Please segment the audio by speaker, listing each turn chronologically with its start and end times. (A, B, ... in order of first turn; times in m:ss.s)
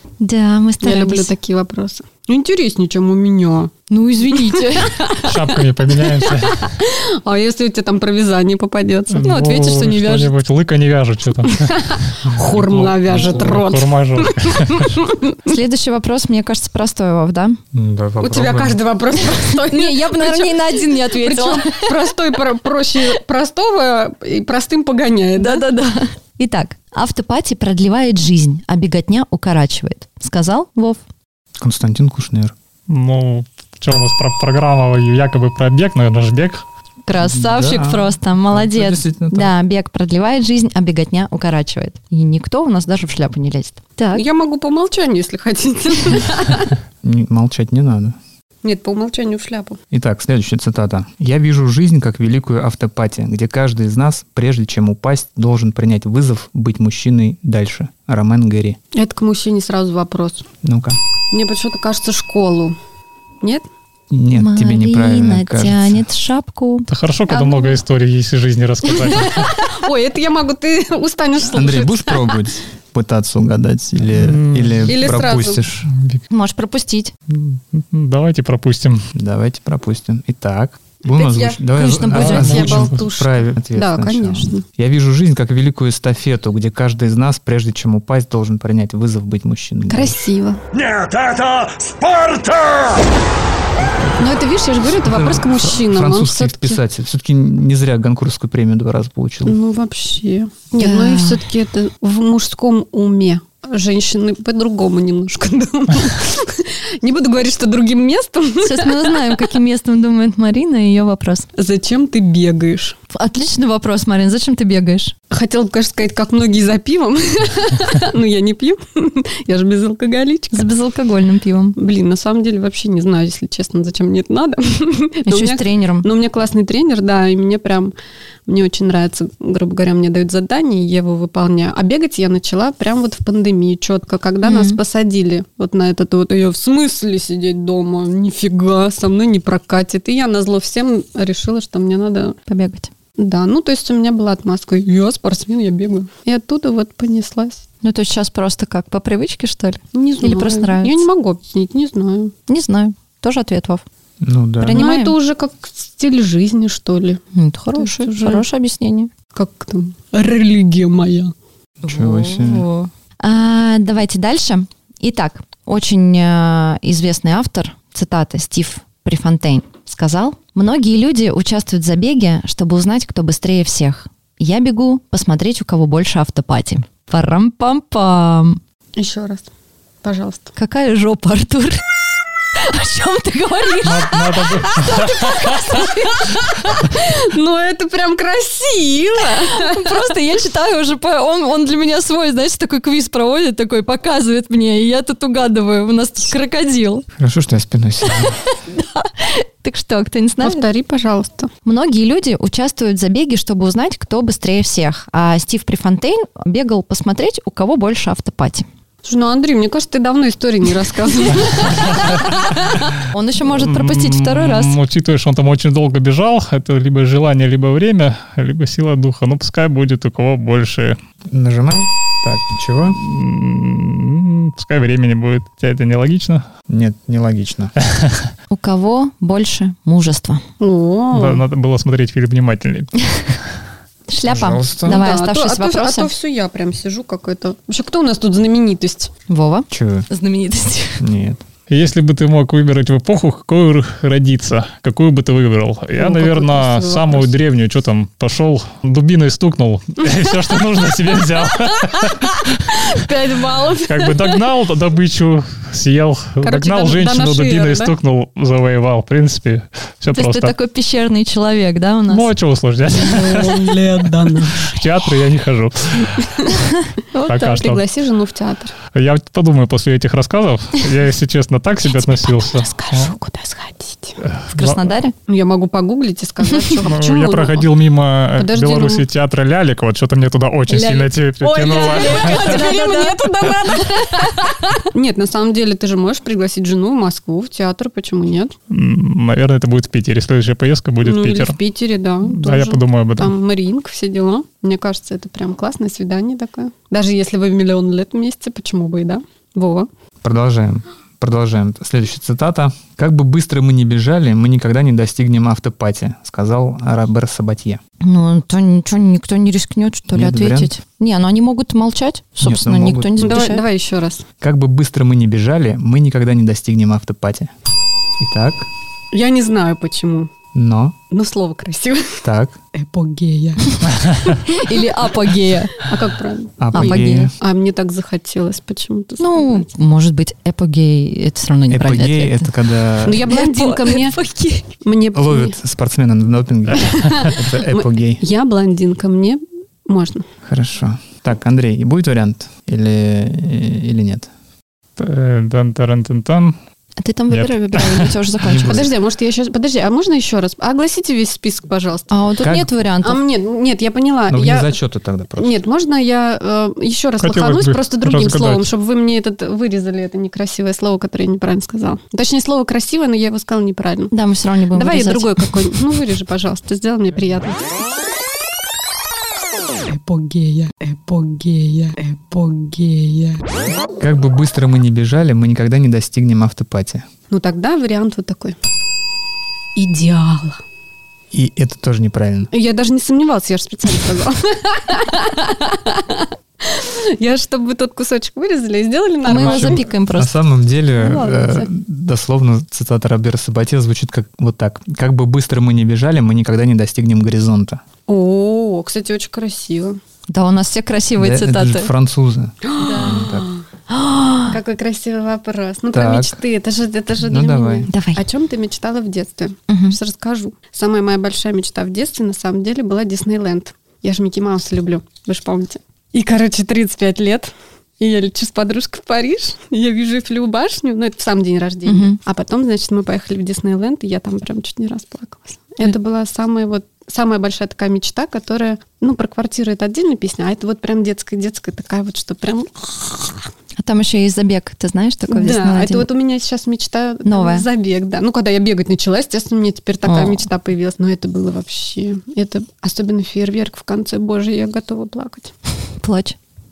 0:00.2-0:01.3 A
0:00.8-0:03.7 B
0:03.9-0:05.0 A
0:04.7-0:05.4 B
0:05.2-0:06.7 C
0:06.0-0:09.8 B
0:09.1-0:15.0 C
0:09.2-0:10.3 A
0:11.6-0:15.4 B
0:15.4-0:17.6 A
0:17.7-0:18.8 D
0:18.2-0:25.6 B
0:19.7-0:21.9 A
0:25.4-0:31.0 A
0:31.6-0:32.5 D
0:32.9-0:36.6 C
0:37.0-0:44.2 A
0:37.2-0:39.5 D
0:44.1-0:46.7 B
0:47.0-0:48.2 D
0:48.6-0:49.8 B
0:49.9-0:58.8 D
0:58.9-1:00.4 B
1:00.6-1:01.0 D
1:01.3-1:02.8 B
1:04.1-1:06.0 D
1:04.3-1:06.9 A
1:06.9-1:09.6 C
1:07.3-1:07.8 B
1:08.9-1:12.4 B
1:11.4-1:15.9 D
1:14.1-1:15.1 C
1:14.8-1:15.6 B
1:15.9-1:16.2 C
1:16.3-1:17.1 A
1:17.3-1:19.1 C
1:19.1-1:30.2 D
1:21.0-1:24.6 B
1:21.7-1:22.7 A
1:22.1-1:23.0 C
1:29.9-1:30.6 B
1:30.7-1:33.0 E
1:33.8-1:34.2 D
1:34.2-1:36.8 B
1:34.9-1:39.6 D
1:39.4-1:49.3 B
1:40.8-1:41.4 A
1:48.6-1:51.5 A
1:51.6-1:53.0 B
1:53.1-1:55.1 A
1:55.3-2:00.7 B
2:00.5-2:01.8 A
2:01.8-2:07.9 B
2:05.3-2:06.1 A
2:08.5-2:22.4 B
2:14.4-2:14.8 A
2:22.5-2:22.9 A
2:23.2-2:27.6 B
2:27.8-2:31.0 A
2:29.9-2:32.3 B
2:32.5-2:33.8 A
2:34.2-2:34.8 D
2:34.6-2:35.1 A
2:34.7-2:37.2 B
2:37.3-2:39.1 A
2:37.7-2:38.4 B
2:39.3-2:41.3 B
2:41.8-2:42.7 D
2:41.8-2:58.6 A
2:59.0-2:59.5 B
3:00.0-3:00.5 B
3:00.6-3:01.8 A
3:02.6-3:06.4 A
3:03.8-3:05.4 C
3:06.2-3:10.0 B
3:09.2-3:17.0 A
3:17.2-3:18.4 D
3:18.2-3:20.6 A
3:20.4-3:21.5 B
3:21.6-3:28.6 A
3:29.0-3:32.2 B
3:33.1-3:34.8 A
3:33.5-3:41.0 C
3:41.3-3:43.0 D
3:42.9-3:46.4 C
3:46.7-3:47.7 D
3:47.8-3:48.3 C
3:48.5-3:50.4 A
3:50.6-3:51.4 B
3:51.1-3:52.9 C
3:54.1-3:56.1 A
3:54.2-3:55.0 D
3:54.8-3:59.1 B
3:59.3-4:01.0 A
3:59.7-4:00.1 D
4:01.0-4:01.4 D
4:01.7-4:12.5 C
4:06.0-4:07.3 B
4:12.7-4:14.4 B
4:13.8-4:20.5 C
4:16.4-4:17.9 B
4:20.1-4:22.3 A
4:22.1-4:26.2 C
4:22.9-4:24.8 B
4:26.2-4:26.4 B
4:26.9-4:27.6 A
4:27.3-4:27.8 C
4:27.3-4:28.7 B
4:28.9-4:33.1 C
4:32.0-4:34.2 B
4:34.2-4:34.9 C
4:34.5-4:35.1 A
4:35.3-4:37.7 B
4:36.8-4:42.7 C
4:38.4-4:39.0 B
4:40.7-4:41.1 A
4:41.4-4:48.5 B
4:41.6-4:43.2 A
4:48.7-4:51.6 C
4:51.0-4:59.9 B
4:52.2-4:53.3 C
5:00.2-5:07.8 D
5:08.0-5:13.6 A
5:10.1-5:10.7 D
5:12.4-5:13.5 D
5:13.2-5:14.2 B
5:14.4-5:17.5 D
5:18.2-5:18.7 D
5:19.1-5:20.3 B
5:20.5-5:21.0 D
5:21.1-5:22.2 B
5:22.2-5:22.6 D
5:22.7-5:24.9 B
5:24.4-5:25.8 A
5:25.8-5:29.7 B
5:26.6-5:27.3 D
5:26.7-5:27.3 A
5:29.2-5:32.5 A
5:31.7-5:33.3 D
5:33.0-5:34.2 B
5:33.2-5:34.6 A
5:34.8-5:35.6 B
5:35.1-5:38.2 D
5:36.8-5:40.2 B
5:40.4-5:44.3 D
5:45.0-5:46.6 C
5:47.0-5:48.9 A
5:47.3-5:48.1 C
5:48.4-5:48.9 D
5:48.6-5:52.1 B
5:52.1-5:53.2 A
5:52.4-5:52.7 D
5:53.0-5:54.7 B
5:54.3-5:55.6 D
5:55.4-6:04.1 B
5:57.2-5:58.7 C
6:04.1-6:05.6 A
6:04.7-6:07.6 B
6:09.9-6:13.4 B
6:14.0-6:17.0 D
6:17.3-6:18.6 B
6:19.7-6:20.6 B
6:21.3-6:22.5 D
6:22.5-6:29.9 B
6:29.2-6:30.3 A
6:29.4-6:37.8 D
6:30.9-6:31.7 B
6:38.1-6:40.0 B
6:40.3-6:41.9 A
6:41.2-6:43.5 D
6:42.6-6:43.6 B
6:42.8-6:43.1 A
6:43.9-6:44.6 A
6:44.5-7:13.4 B
6:45.9-6:46.4 D
6:47.2-6:47.9 D
6:47.9-6:48.2 A
6:49.7-6:50.0 A
7:01.9-7:02.2 A
7:13.8-7:16.1 A
7:15.3-7:25.5 B
7:17.2-7:17.6 A
7:20.0-7:20.4 A
7:26.0-7:26.4 A